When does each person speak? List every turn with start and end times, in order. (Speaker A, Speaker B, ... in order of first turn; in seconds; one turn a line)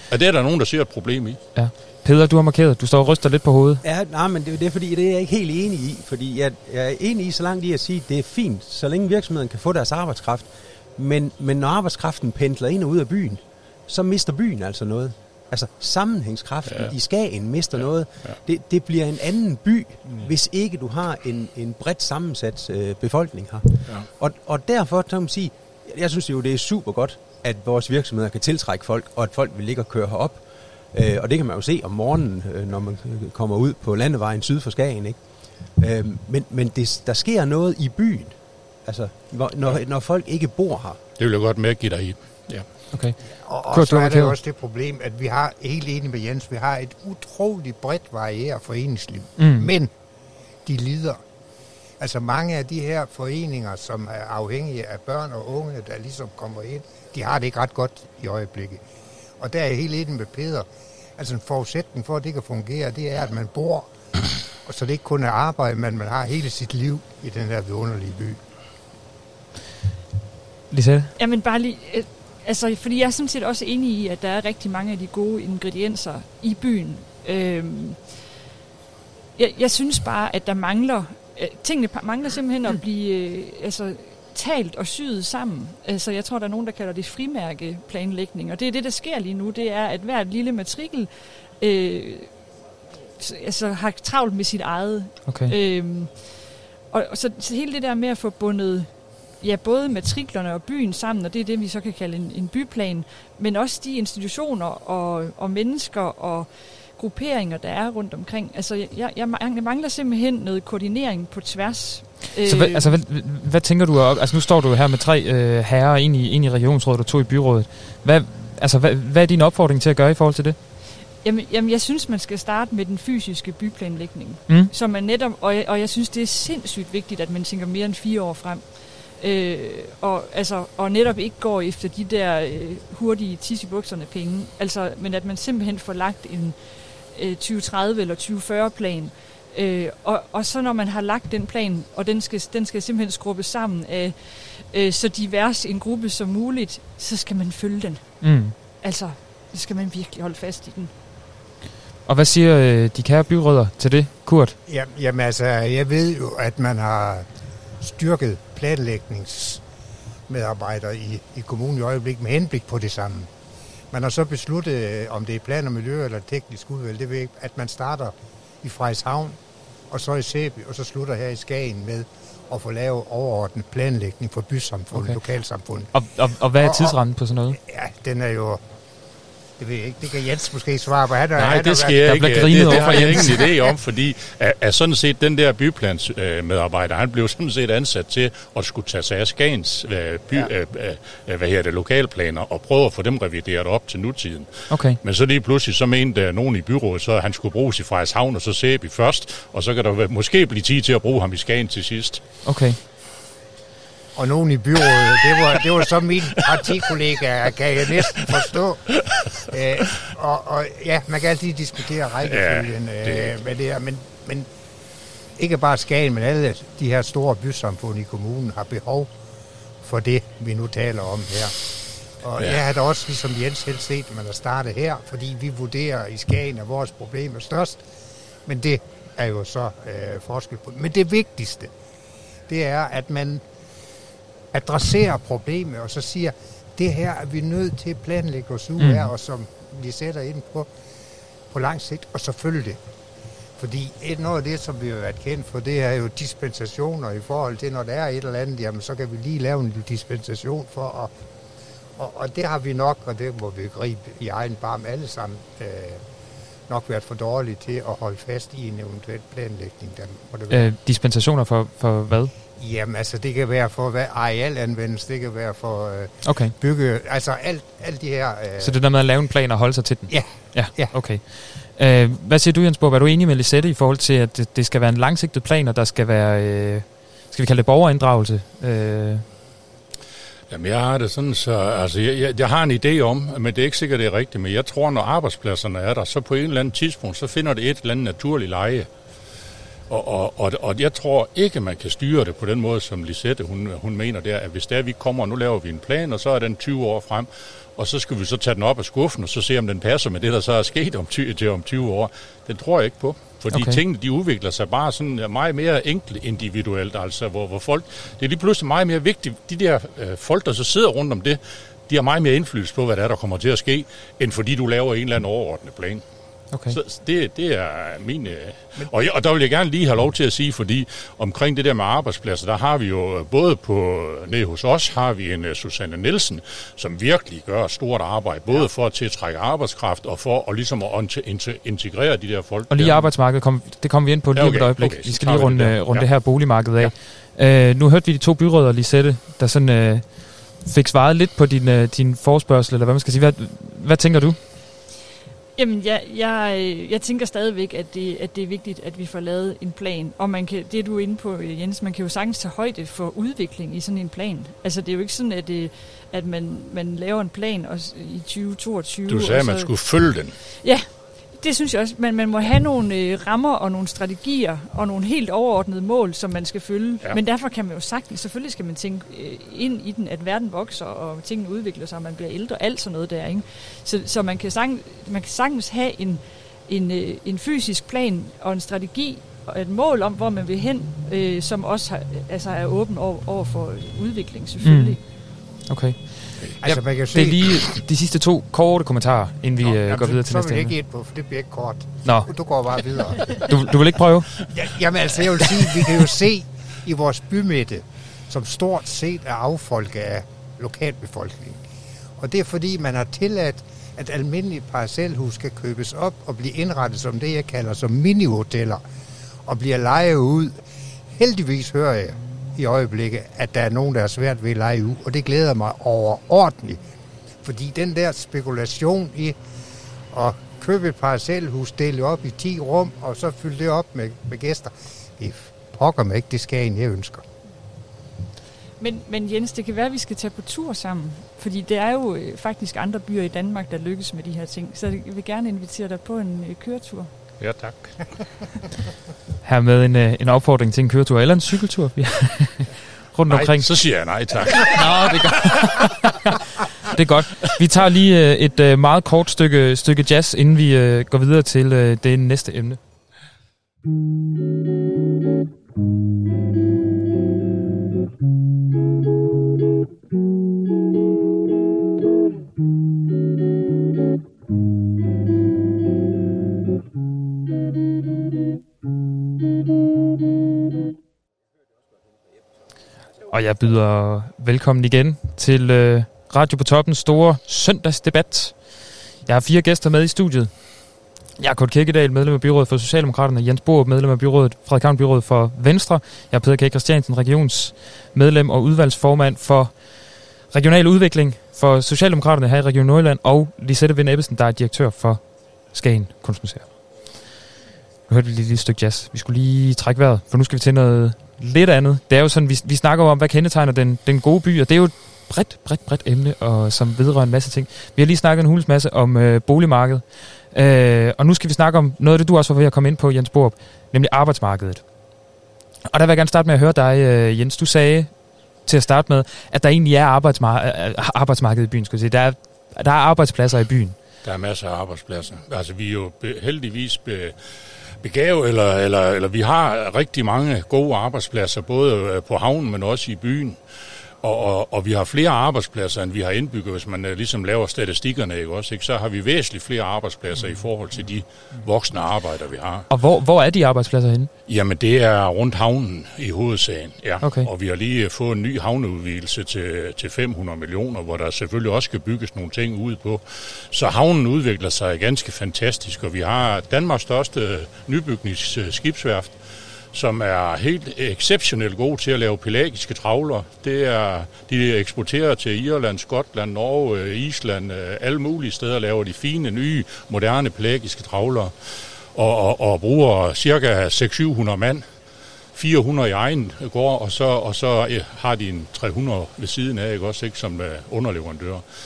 Speaker A: 0.1-1.4
Speaker B: 1.5-3.8
Speaker C: 3.8-41.0
Speaker A: 16.6-16.9
Speaker A: 17.7-18.4
Speaker A: 23.9-24.1
Speaker A: 41.2-42.7
Speaker B: 42.9-43.2
Speaker D: 43.4-49.9
Speaker B: 43.7-44.4
Speaker B: 49.4-49.7
Speaker D: 50.6-51.2
Speaker D: 52.0-58.8
Speaker D: 59.4-63.9
Speaker D: 64.6-68.4
Speaker B: 70.7-71.1
Speaker E: 71.2-78.1
Speaker E: 79.3-92.4
Speaker E: 93.2-112.9
Speaker B: 95.2-95.5
Speaker B: 112.4-120.6
Speaker E: 121.1-150.9
Speaker B: 124.5-124.7
Speaker B: 148.2-148.6
Speaker B: 152.1-154.6
Speaker D: 154.7-157.3
Speaker D: 157.8-159.6
Speaker D: 160.3-163.3
Speaker D: 163.9-169.4
Speaker D: 169.9-175.9
Speaker B: 174.9-175.2
Speaker B: 175.9-177.6
Speaker D: 176.5-178.6
Speaker D: 179.6-182.2
Speaker A: 181.3-202.2
Speaker B: 182.0-183.5
Speaker B: 194.7-195.0
Speaker B: 202.4-202.8
Speaker D: 204.2-208.8
Speaker A: 208.9-209.2
Speaker D: 209.5-214.5
Speaker A: 212.2-213.4
Speaker D: 215.4-219.1
Speaker D: 219.8-221.6
Speaker D: 222.2-227.8
Speaker D: 228.4-231.7
Speaker D: 232.5-233.4
Speaker D: 234.5-240.7
Speaker B: 238.8-239.1
Speaker D: 241.5-242.8
Speaker D: 243.6-251.1
Speaker D: 252.0-256.0
Speaker D: 256.7-260.7
Speaker B: 260.5-262.3
Speaker D: 262.6-268.8
Speaker B: 266.2-266.5
Speaker B: 268.6-279.2
Speaker D: 270.1-271.0
Speaker A: 280.5-288.9
Speaker A: 289.9-316.0
Speaker B: 303.5-303.8
Speaker B: 316.5-316.8
Speaker A: 316.7-333.1
Speaker B: 332.7-344.4
Speaker A: 334.3-336.2
Speaker E: 345.6-359.7
Speaker A: 359.1-360.4
Speaker E: 360.4-385.0
Speaker B: 384.6-385.0
Speaker B: 385.5-390.7
Speaker D: 386.6-387.6
Speaker D: 389.6-393.5
Speaker B: 392.0-392.3
Speaker B: 393.3-394.3
Speaker D: 394.5-401.6
Speaker D: 402.2-408.8
Speaker D: 409.4-410.6
Speaker D: 411.1-416.8
Speaker D: 417.4-419.4
Speaker D: 420.1-427.2
Speaker E: 428.8-437.1
Speaker A: 437.4-438.0
Speaker B: 439.4-443.7
Speaker A: 443.3-445.8
Speaker B: 444.5-446.4
Speaker B: 446.9-452.8
Speaker B: 473.3-496.7
Speaker B: 498.1-514.8
Speaker B: 515.9-518.1
Speaker B: 518.6-523.9
Speaker A: 524.2-533.6
Speaker A: 534.2-542.9
Speaker B: 542.9-544.3
Speaker A: 544.5-559.4
Speaker B: 547.2-547.5
Speaker A: 559.9-574.9
Speaker A: 575.5-581.6